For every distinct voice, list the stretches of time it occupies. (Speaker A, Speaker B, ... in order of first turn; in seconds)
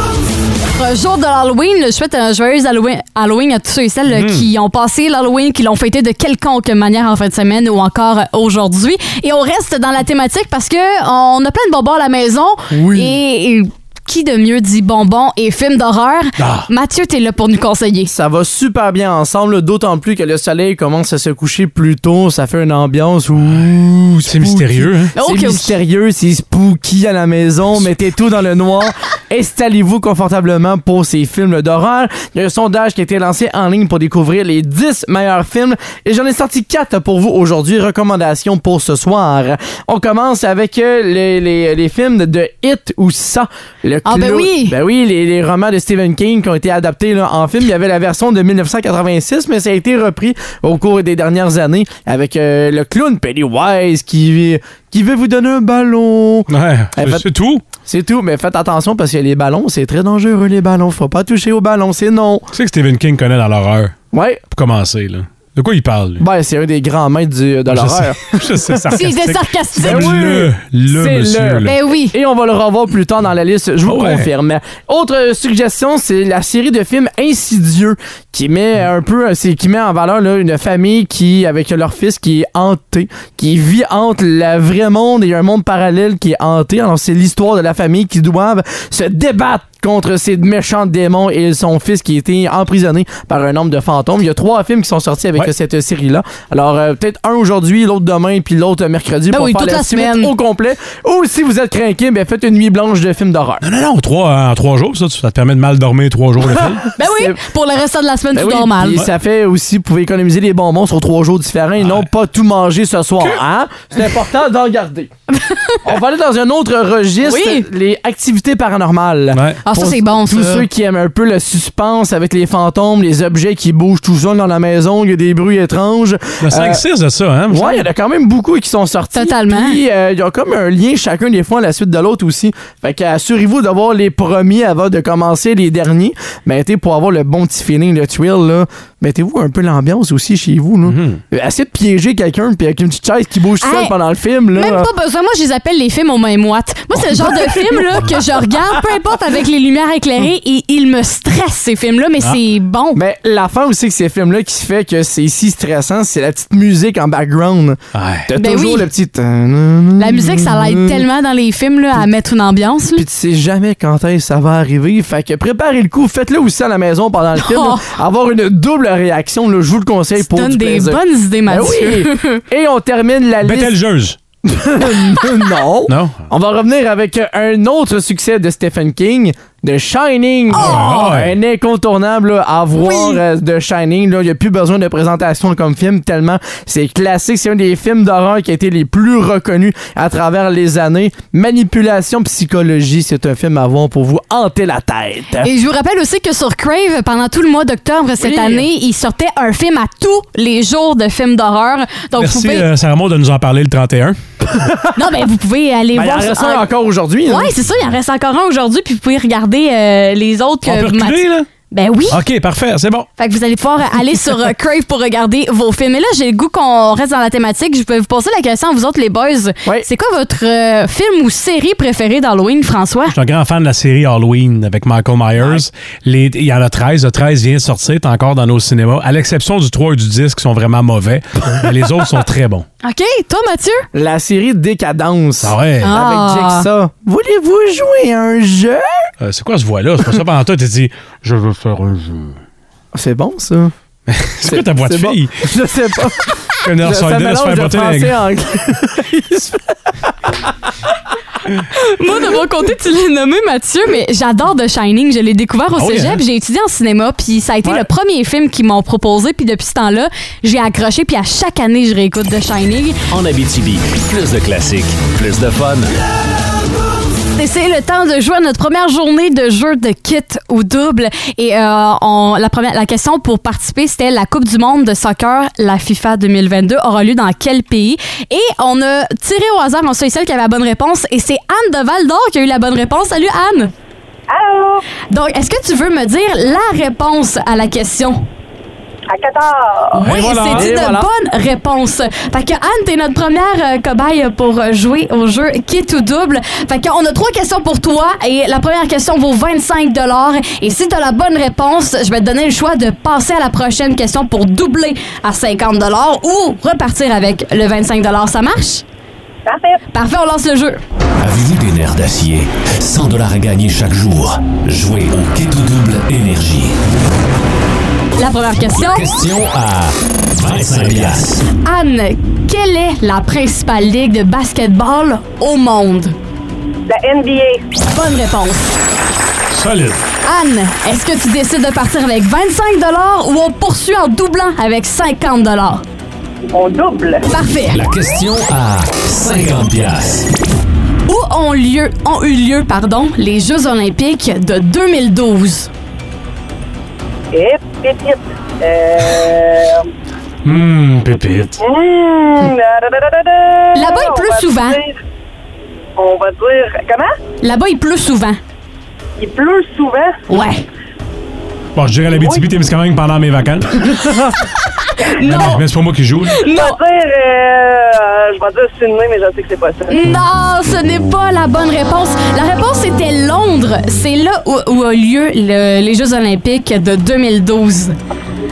Speaker A: 0.8-18.1, 25.1-25.7, 44.0-44.8, 68.9-70.2, 71.6-72.1, 99.3-100.3, 107.0-109.0, 115.3-115.8, 117.2-117.7, 119.6-120.7, 129.1-129.8, 143.6-143.9, 144.5-153.0, 158.4-158.9, 160.0-163.0, 167.3-167.8, 170.2-172.4, 180.5-180.9, 195.4-202.7, 204.9-206.7, 207.2-212.2, 213.2-223.1, 232.8-233.9, 235.8-236.7, 251.7-263.0, 267.3-283.7, 285.1-288.2, 289.9-308.8, 309.9-310.8, 318.2-319.1, 321.6-326.1, 327.9-328.7, 330.2-335.8, 337.3-337.8, 341.1-345.7, 353.7-354.8, 357.4-358.4, 360.3-360.6, 365.0-365.6, 366.3-366.8, 369.9-377.9
Speaker B: 4.1-4.5, 16.4-16.7, 24.2-25.1, 56.5-57.6, 62.5-64.0, 64.5-66.2, 67.7-71.7, 73.8-74.3, 103.6-106.9, 111.8-112.1, 119.3-119.6, 126.4-127.9, 140.8-141.2, 157.9-158.3, 173.4-174.2, 175.9-176.2, 180.5-181.3, 202.2-204.2, 210.7-211.5, 212.1-213.1, 223.1-232.7, 235.4-235.9, 239.2-242.4, 244.1-245.3, 246.6-248.2, 255.8-256.2, 290.0-290.7, 329.5-330.0, 350.4-351.6, 361.8-364.2, 365.2-366.4
Speaker C: 12.7-13.1, 18.1-57.2, 57.8-62.5, 64.1-64.4, 66.2-69.0, 69.8-103.6, 107.0-107.4, 108.3-115.1, 115.8-126.8, 127.5-144.9, 152.9-161.0, 162.9-173.7, 174.5-195.5, 198.2-198.7, 204.5-204.9, 205.9-207.5, 225.4-225.6, 233.9-238.8, 242.9-243.7, 244.4-250.1, 290.2-291.1
Speaker D: 263.1-265.9, 311.2-316.8, 318.7-321.4, 337.7-340.3
Speaker E: 284.3-284.8, 289.1-290.0, 309.4-309.8, 326.9-327.6, 336.5-337.2, 347.3-349.8, 351.6-354.9, 356.0-357.1, 359.2-360.1, 362.2-362.4, 366.5-370.0